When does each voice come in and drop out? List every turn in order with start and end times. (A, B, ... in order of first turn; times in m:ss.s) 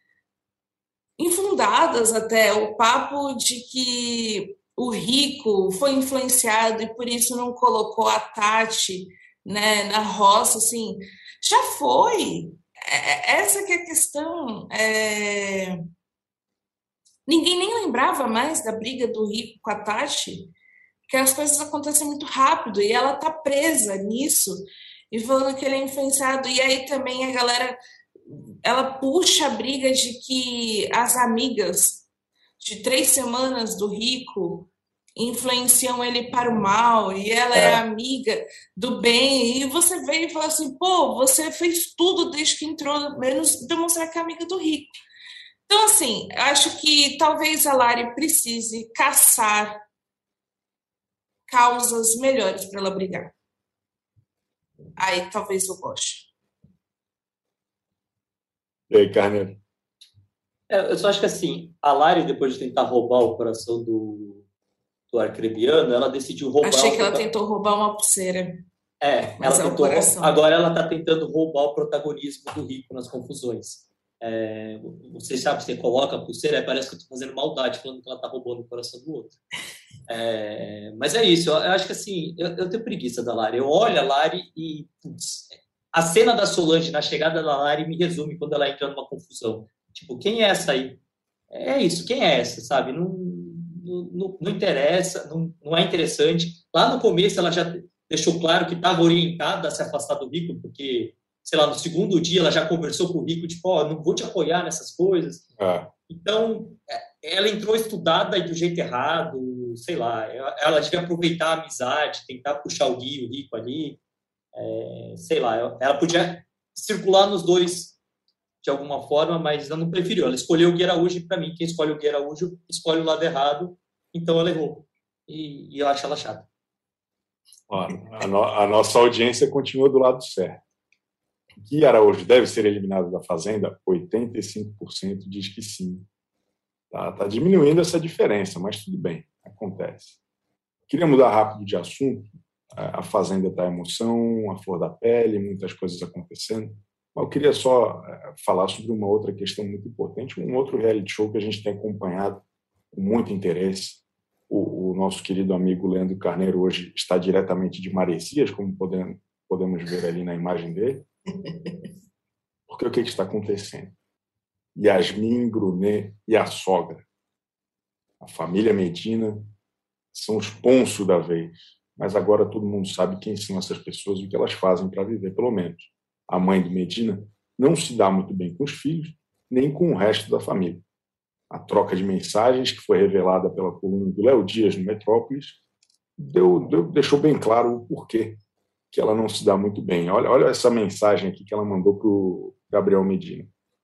0:01.2-0:15.8 A
0:17.3-0:20.5 A
0:21.1-0:27.8 A
0:28.3-0:32.0 A
0:32.6-0:44.9 A
0:37.5-0:37.8 B
0:45.7-0:49.8 A
0:51.5-0:53.3 A
0:55.0-0:56.3 A
0:58.9-0:59.6 B
1:00.7-1:04.4 C
1:05.1-1:07.3 C
1:06.6-1:08.6 A
1:09.0-1:19.4 C
1:09.4-1:10.4 A
1:20.1-1:31.0 C
1:31.5-1:45.5 C
1:45.6-1:45.9 B
1:46.1-1:54.0 C
1:54.6-1:58.0 C
1:58.6-2:06.5 C
2:07.7-2:10.6 B
2:11.6-2:16.1 B
2:16.9-2:20.2 B
2:20.9-2:41.1 B
2:42.7-2:43.9 B
2:44.8-2:47.0 B
2:48.2-2:49.5 B
2:50.1-3:00.8 B
3:01.5-3:05.6 B
3:06.2-3:08.4 B
3:08.9-3:13.5 B